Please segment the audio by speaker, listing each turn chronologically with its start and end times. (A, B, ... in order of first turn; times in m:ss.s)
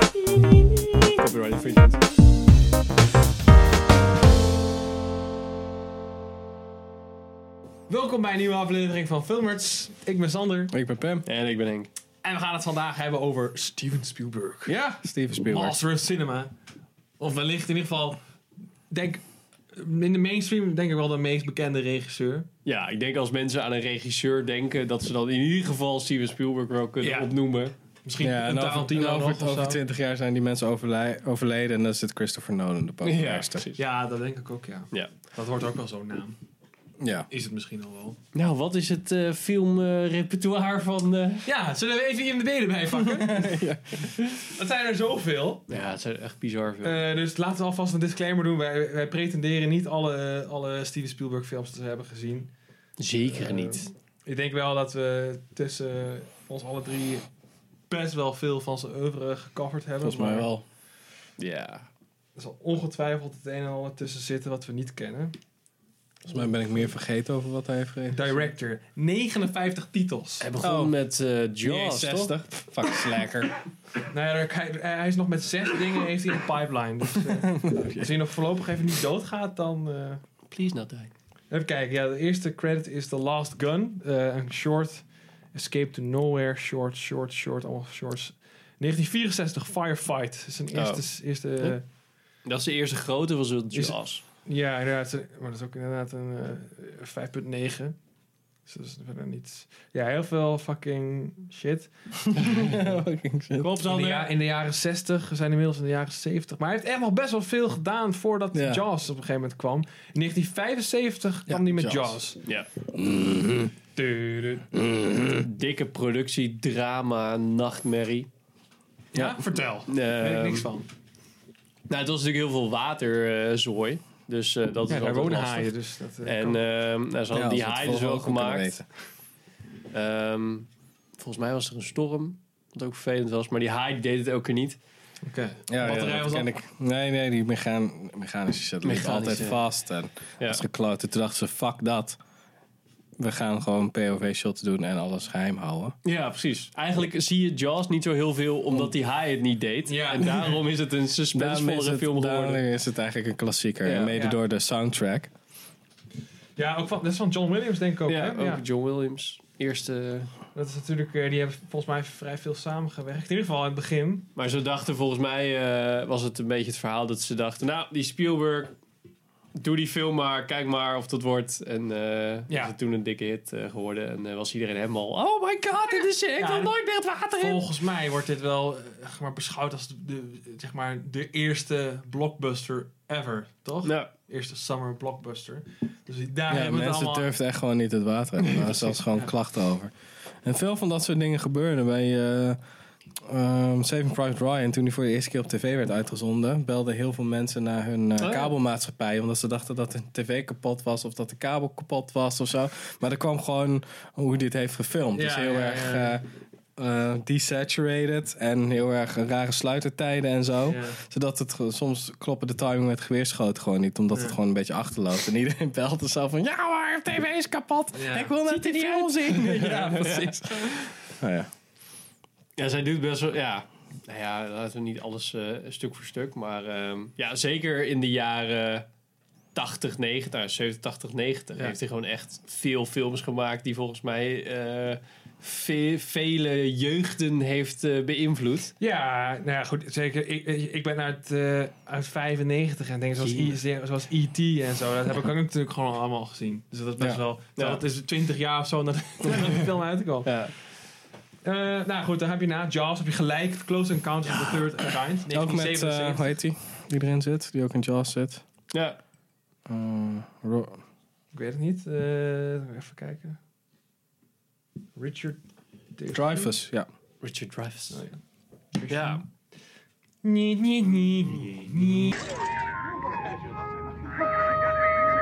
0:01.1-0:02.0 A
0:07.9-0:10.7 B
0:10.7-0:11.2 C
0:11.2-0:11.9 A
0:12.2-0:16.5 B
0:14.6-0:15.8 C
0:17.2-0:18.2 B
0:18.9-0:22.5 B
0:22.6-0:27.7 A
0:27.0-0:27.3 B
0:28.0-0:29.8 B
0:28.2-0:33.6 C
0:33.0-0:33.8 A
0:33.8-0:36.4 B
0:37.0-0:37.3 C
0:37.3-0:38.2 B
0:38.3-0:41.4 A
0:41.4-0:43.6 B
0:42.9-0:44.5 C
0:44.5-0:45.7 B
0:45.7-0:47.0 A
0:46.8-0:52.5 B
0:53.0-0:53.9 A
0:53.3-0:57.2 B
0:57.9-1:00.5 B
1:00.0-1:00.6 C
1:01.4-1:01.9 A
1:02.4-1:05.3 B
1:06.2-1:08.5 C
1:08.1-1:10.5 B
1:10.4-1:12.4 A
1:10.6-1:10.9 C
1:11.6-1:13.5 C
1:14.1-1:20.2 B
1:17.2-1:18.1 C
1:20.5-1:21.1 A
1:21.5-1:31.8 B
1:30.7-1:31.0 A
1:32.4-1:34.2 A
1:33.7-1:38.0 B
1:38.6-1:42.8 B
1:42.2-1:43.8 C
1:43.6-1:44.3 A
1:43.8-1:52.4 B
1:48.5-1:48.8 C
1:51.5-1:52.2 C
1:52.9-1:53.7 C
1:53.9-1:54.7 B
1:54.7-1:55.4 C
1:55.3-1:58.3 A
1:59.1-2:00.9 B
1:59.9-2:00.7 A
2:01.9-2:05.7 A
2:04.9-2:06.6 B
2:06.2-2:08.8 A
2:07.3-2:08.8 C
2:09.9-2:10.7 A
2:11.2-2:14.8 A
2:15.2-2:16.5 B
2:15.7-2:22.2 C
2:18.8-2:19.6 A
2:23.2-2:26.0 C
2:26.0-2:32.6 A
2:29.9-2:30.6 B
2:31.3-2:35.3 C
2:33.8-2:34.1 A
2:34.1-2:34.4 B
2:36.6-2:38.6 B
2:38.1-2:40.3 A
2:40.5-2:44.3 B
2:44.4-2:48.7 A
2:49.6-2:57.7 A
2:52.5-2:52.7 B
2:56.4-2:56.7 B
2:57.4-3:07.3 B
3:03.8-3:04.1 A
3:06.5-3:12.6 C
3:08.4-3:08.8 A
3:13.2-3:26.2 C
3:18.2-3:18.5 A
3:25.1-3:26.2 B
3:26.8-3:41.5 C
3:30.7-3:31.0 B
3:37.9-3:38.3 B
3:38.5-3:40.9 A
3:39.6-3:40.0 B
3:42.6-3:48.8 A
3:49.5-3:58.7 A
3:58.8-4:10.3 B
4:03.2-4:03.6 A
4:09.3-4:09.6 A
4:10.2-4:10.5 A
4:11.4-4:16.4 B
4:14.4-4:14.7 A
4:15.3-4:18.4 C
4:18.7-4:19.0 A
4:19.7-4:20.8 C
4:21.3-4:23.4 B
4:25.0-4:25.4 B
4:25.9-4:26.5 B
4:26.1-4:26.9 C
4:27.2-4:28.0 A
4:27.9-4:28.2 B
4:28.7-4:29.2 B
4:28.9-4:29.2 A
4:30.2-4:32.1 B